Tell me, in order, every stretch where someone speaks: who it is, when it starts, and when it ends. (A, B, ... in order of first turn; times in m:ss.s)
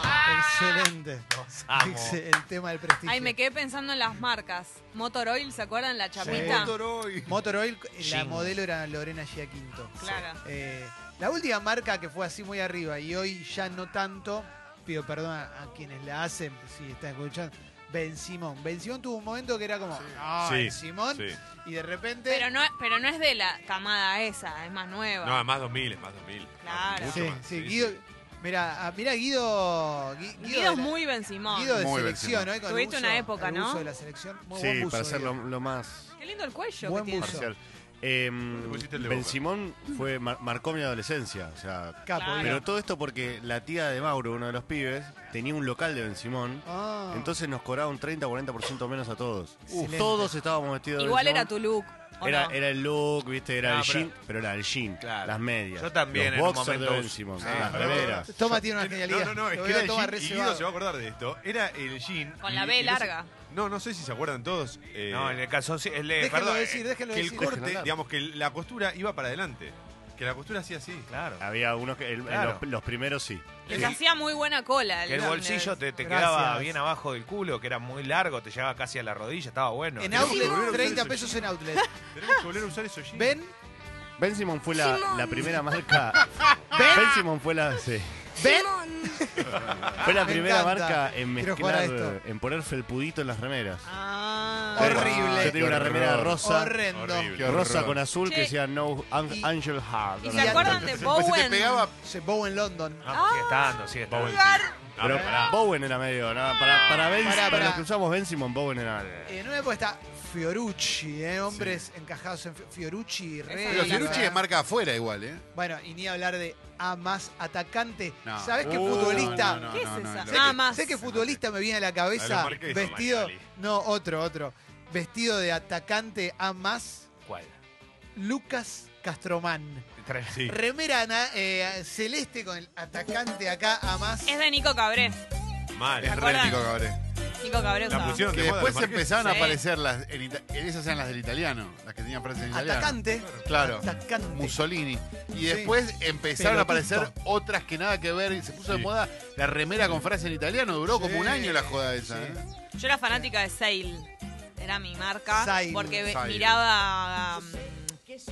0:00.2-0:03.3 A
0:01.3-0:02.2 B
0:03.0-0:06.7 C
0:06.2-0:06.7 A
0:06.2-0:07.3 D
0:07.2-0:22.5 A
0:08.0-0:08.6 B
0:10.0-0:10.4 C
0:19.9-0:20.2 D
0:20.3-0:21.4 E
0:22.3-0:25.4 C
0:25.2-0:28.0 E
0:26.6-0:27.3 C
0:27.1-0:35.4 A
0:30.4-0:31.7 C
0:31.7-0:32.5 D
0:32.6-0:33.9 C
0:34.5-0:36.1 F
0:36.2-0:37.4 C
0:36.8-0:37.5 A
0:36.8-0:51.5 F
0:38.5-0:39.4 E
0:42.0-0:42.7 A
0:42.1-0:42.6 C
0:46.6-0:47.3 A
0:49.7-0:50.3 A
0:50.9-0:52.6 C
0:52.2-0:58.3 F
0:53.6-0:54.1 B
0:55.0-0:57.7 B
0:57.4-0:58.2 D
0:57.4-1:05.4 E
0:57.7-1:00.7 A
1:02.4-1:03.3 C
1:05.1-1:07.3 B
1:06.2-1:07.6 A
1:07.3-1:11.1 E
1:07.4-1:07.9 F
1:11.1-1:11.4 B
1:11.4-1:13.7 F
1:12.3-1:12.6 B
1:13.6-1:15.8 C
1:13.7-1:14.0 B
1:13.7-1:13.9 A
1:15.1-1:20.4 B
1:16.0-1:16.8 A
1:20.0-1:21.9 A
1:20.1-1:21.0 C
1:20.1-1:21.4 E
1:22.1-1:23.4 E
1:23.1-1:23.5 A
1:24.2-1:26.2 F
1:24.8-1:25.3 C
1:26.7-1:27.2 A
1:26.8-1:28.3 F
1:28.4-1:32.2 A
1:28.4-1:29.1 C
1:29.6-1:30.1 E
1:30.0-1:33.9 F
1:33.8-1:35.1 C
1:34.7-1:35.6 A
1:34.7-1:36.8 F
1:34.8-1:36.4 D
1:36.4-1:37.4 A
1:36.9-1:37.6 E
1:37.4-1:38.0 D
1:37.4-1:41.0 F
1:38.2-1:38.5 C
1:40.2-1:41.9 C
1:40.3-1:41.0 A
1:40.7-1:41.2 E
1:40.9-1:41.9 D
1:42.0-1:43.1 A
1:43.0-1:44.3 B
1:43.1-1:44.8 C
1:44.1-1:45.6 E
1:45.0-1:49.4 F
1:47.2-1:47.8 A
1:49.2-1:54.4 A
1:53.5-1:54.3 C
1:53.7-1:55.4 D
1:55.5-2:07.1 A
1:58.2-2:01.4 D
1:58.6-1:59.6 E
1:59.6-2:01.0 C
2:02.2-2:03.5 E
2:02.5-2:03.0 B
2:07.2-2:07.6 B
2:08.2-2:09.9 A
2:10.0-2:10.5 B
2:10.3-2:10.5 E
2:10.4-2:14.4 A
2:14.2-2:15.2 C
2:15.7-2:16.5 E
2:16.0-2:16.8 C
2:16.0-2:17.0 D
2:17.4-2:18.3 C
2:17.9-2:19.3 E
2:18.3-2:32.4 D
2:19.2-2:19.6 C
2:22.5-2:24.6 A
2:23.1-2:23.5 E
2:25.4-2:25.8 A
2:26.3-2:27.1 A
2:30.8-2:32.4 A
2:32.8-2:38.0 C
2:35.3-2:36.1 A
2:36.0-2:36.6 D